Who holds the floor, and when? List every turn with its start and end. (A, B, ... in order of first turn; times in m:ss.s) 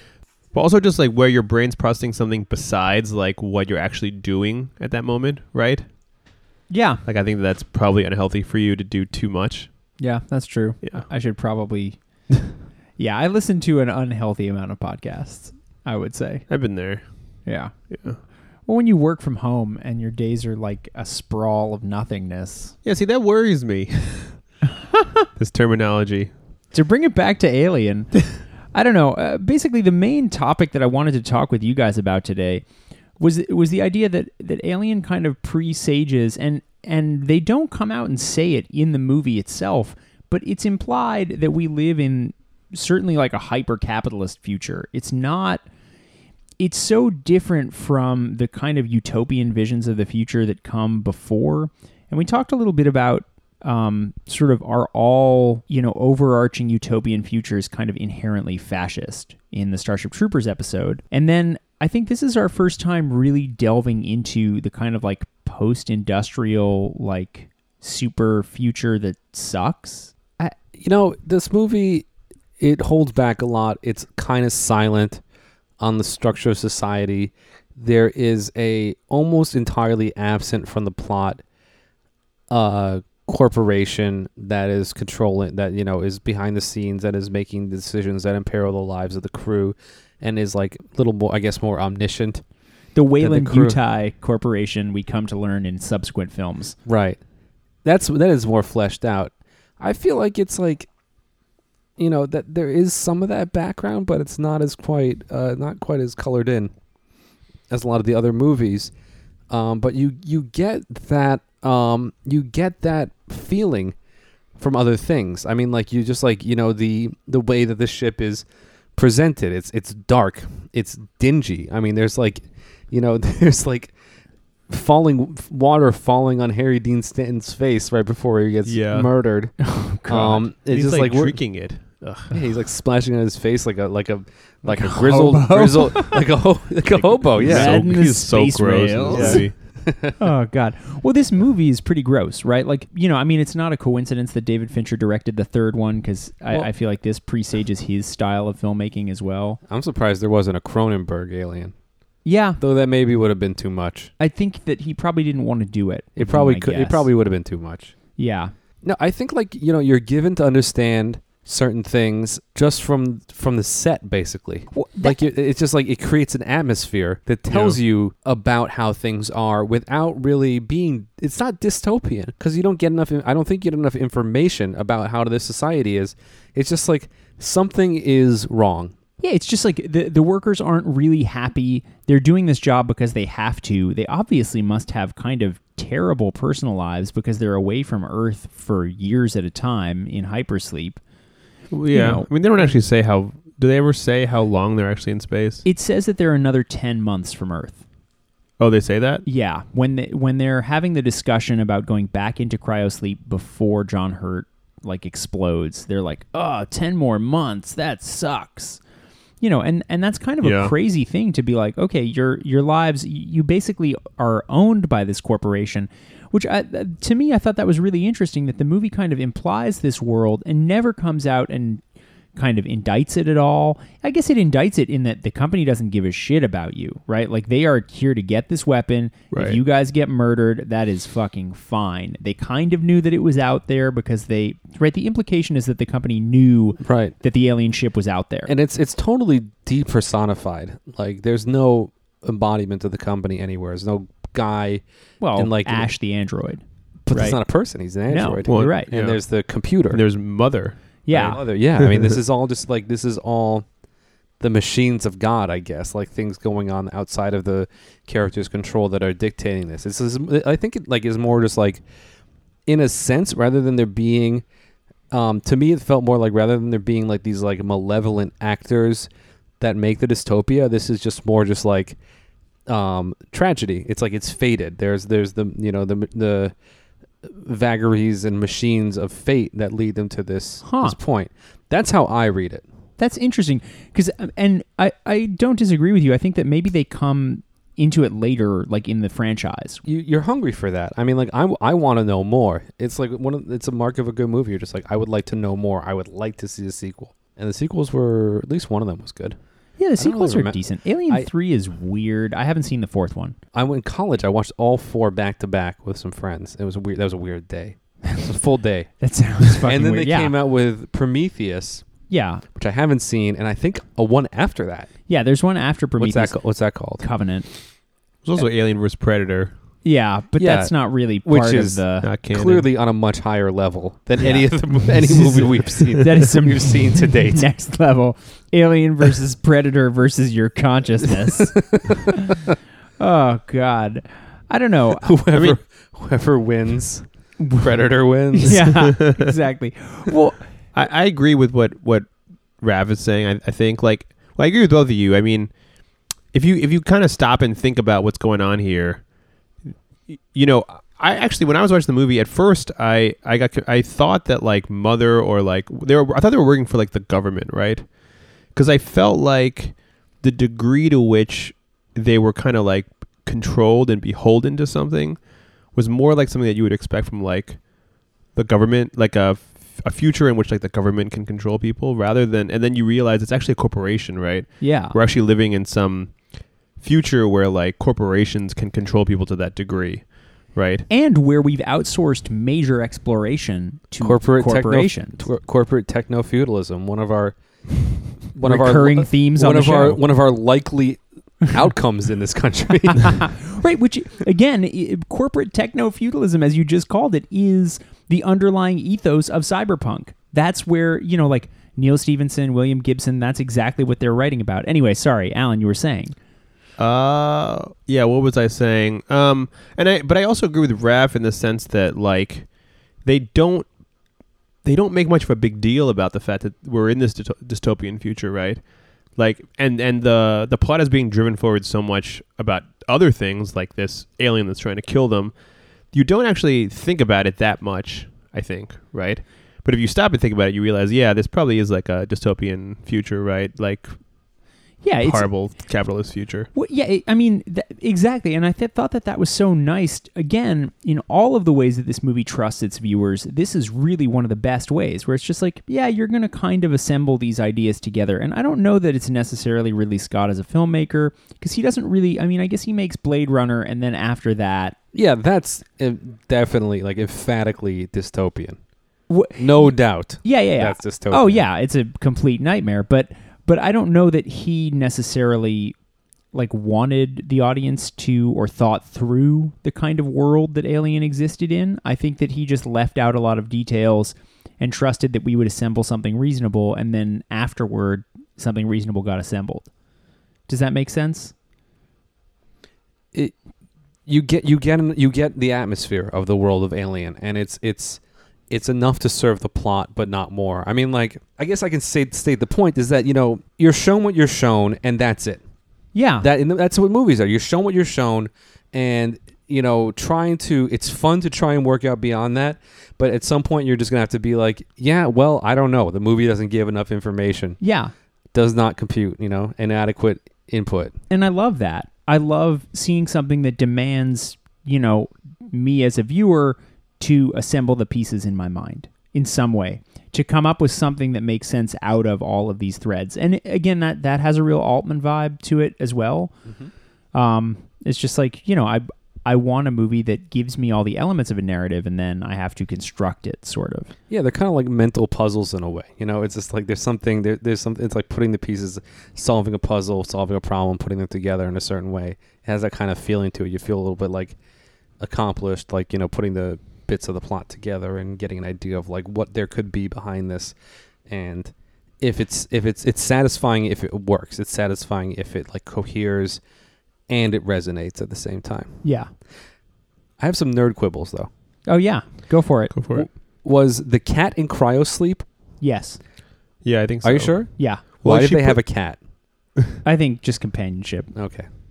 0:00.5-0:05.8 A
0:06.7-0:07.0 B
0:07.0-0:09.7 A
0:10.0-0:12.0 B
0:10.8-0:11.1 A
0:13.0-0:16.5 B
0:16.5-0:17.1 A
0:17.4-0:17.9 B
0:17.9-0:18.2 A
0:18.7-0:22.7 B
0:22.8-0:24.4 A
0:25.4-0:26.3 A
0:26.7-0:32.6 B
0:33.2-0:45.6 B
0:46.6-1:10.3 B
1:10.4-1:12.0 C
1:12.6-1:15.2 C
1:15.8-1:21.4 C
1:22.5-1:32.4 C
1:32.9-1:36.8 B
1:33.2-1:33.8 C
1:36.8-1:37.2 C
1:37.8-1:40.9 C
1:42.0-1:46.7 C
1:47.7-1:48.9 C
1:49.5-1:54.0 C
1:54.6-2:03.9 C
2:04.7-2:11.4 C
2:08.6-2:09.1 A
2:09.6-2:10.4 B
2:10.5-2:12.4 A
2:12.3-2:17.8 C
2:14.6-2:16.2 B
2:17.3-2:19.5 A
2:17.4-2:19.5 B
2:19.1-2:20.2 C
2:20.2-2:29.6 B
2:29.7-2:31.7 C
2:32.2-2:32.6 B
2:32.6-2:34.1 C
2:34.2-2:37.1 B
2:36.2-2:37.9 C
2:38.2-2:38.5 B
2:38.8-2:58.9 C
2:44.7-2:45.2 B
2:47.5-2:47.8 A
2:59.2-3:11.0 B
3:11.7-3:15.6 A
3:11.9-3:12.7 B
3:15.6-3:17.8 B
3:18.6-3:19.2 A
3:19.2-3:28.8 B
3:29.4-3:41.8 B
3:30.4-3:30.7 A
3:42.4-3:58.5 B
3:49.3-3:49.6 A
3:56.8-3:57.1 C
3:58.5-4:04.8 C
4:05.2-4:07.4 B
4:05.3-4:05.9 C
4:07.0-4:10.0 C
4:08.1-4:08.9 B
4:08.5-4:09.2 A
4:09.9-4:10.8 A
4:11.1-4:11.4 B
4:11.1-4:13.6 C
4:11.8-4:12.1 A
4:14.4-4:21.8 C
4:22.7-4:24.4 C
4:25.1-4:29.1 C
4:29.6-4:32.0 C
4:32.7-4:36.5 C
4:37.2-4:42.6 C
4:40.6-4:41.0 B
4:43.0-4:49.8 B
4:49.8-4:59.4 C
4:59.8-5:03.4 B
5:00.0-5:01.3 C
5:03.5-5:08.9 C
5:09.0-5:10.3 B
5:09.4-5:11.8 C
5:12.1-5:12.4 B
5:12.5-5:14.9 C
5:15.1-5:16.4 B
5:16.0-5:17.0 C
5:17.0-5:17.5 B
5:18.2-5:19.5 A
5:19.8-5:22.1 B
5:20.4-5:20.7 C
5:21.2-5:27.4 C
5:22.0-5:22.7 A
5:24.2-5:32.4 B
5:31.2-5:32.0 C
5:33.0-5:35.2 B
5:35.0-5:37.0 C
5:37.4-5:37.7 B
5:37.6-5:38.8 C
5:38.3-5:40.4 B
5:38.7-5:39.3 A
5:40.7-5:45.5 A
5:46.3-5:49.0 A
5:50.1-5:57.9 A
5:58.5-6:07.6 A
6:08.3-6:20.8 A
6:14.6-6:15.0 B
6:20.9-6:25.2 B
6:24.0-6:27.4 C
6:28.2-6:33.3 C
6:28.4-6:30.0 B
6:32.9-6:46.1 B
6:46.8-6:53.7 A
6:54.6-7:05.3 A
7:05.9-7:14.0 A
7:14.8-7:15.3 B
7:15.0-7:16.5 A
7:16.5-7:34.8 B
7:34.9-7:38.6 C
7:39.1-7:45.7 B
7:39.4-7:41.4 C
7:46.3-7:59.7 B
8:00.5-8:01.3 B
8:04.0-8:15.4 C
8:15.9-8:16.3 B
8:16.2-8:27.6 C
8:27.6-8:27.9 B
8:28.3-8:30.9 C
8:31.1-8:46.3 B
8:47.1-8:53.9 B
8:54.1-9:04.4 C
9:05.0-9:10.5 C
9:11.1-9:16.4 C
9:17.1-9:18.8 C
9:18.8-9:19.1 B
9:20.2-9:21.3 C
9:21.6-9:22.8 B
9:22.7-9:23.0 A
9:22.9-9:25.2 C
9:25.6-9:26.0 B
9:26.6-9:28.6 A
9:27.0-9:29.0 C
9:27.6-9:27.8 B
9:29.8-9:31.1 B
9:31.1-9:31.4 C